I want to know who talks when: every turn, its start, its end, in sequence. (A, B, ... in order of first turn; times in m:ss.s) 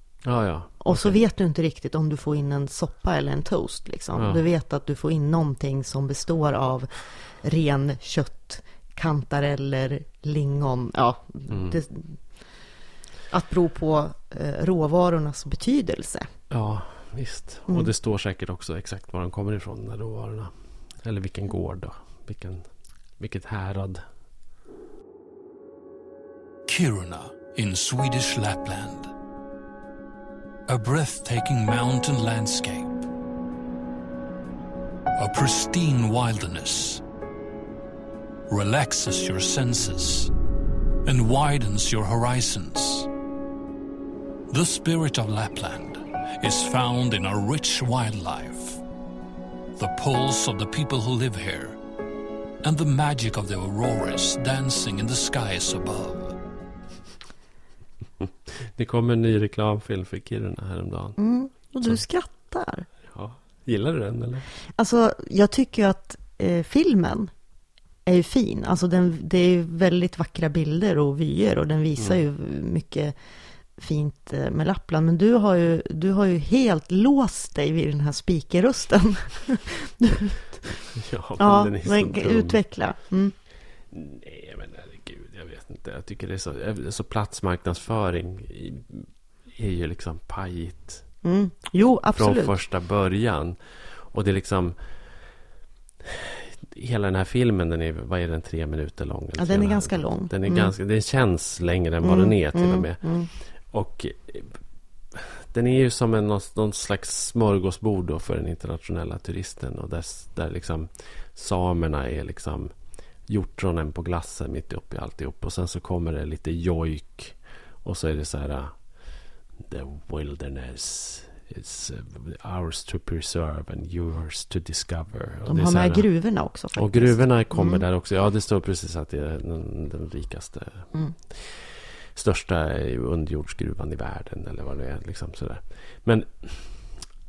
0:00.2-0:01.2 A
0:00.8-0:12.2 B
0:04.2-0:04.4 A
0:11.5-0:11.8 A
0:13.3-0:16.3 B
0:16.5-0:22.6 A
0:23.2-0:24.0 A
0:26.7-0:29.1 C
0:30.7-0:33.0 C
0:35.2-0:37.0 C
0:38.5-0:40.3 C
0:41.0-0:43.1 C
0:44.5-0:48.8 C
0:49.8-0:51.8 C
0:52.6-0:56.4 C
0:58.2-1:01.2 A
1:01.2-1:02.9 B
1:03.1-1:04.5 A
1:04.8-1:07.3 B
1:08.1-1:13.1 B
1:13.8-1:20.8 B
1:20.9-1:22.6 A
1:21.4-1:23.4 B
1:23.9-1:31.0 A
1:31.2-1:32.6 B
1:32.2-1:34.8 A
1:36.0-1:44.6 A
1:39.4-1:40.7 B
1:42.0-1:43.3 B
1:45.1-1:52.7 A
1:53.3-1:58.7 A
1:59.6-2:06.1 A
2:05.5-2:07.8 B
2:06.8-2:16.9 A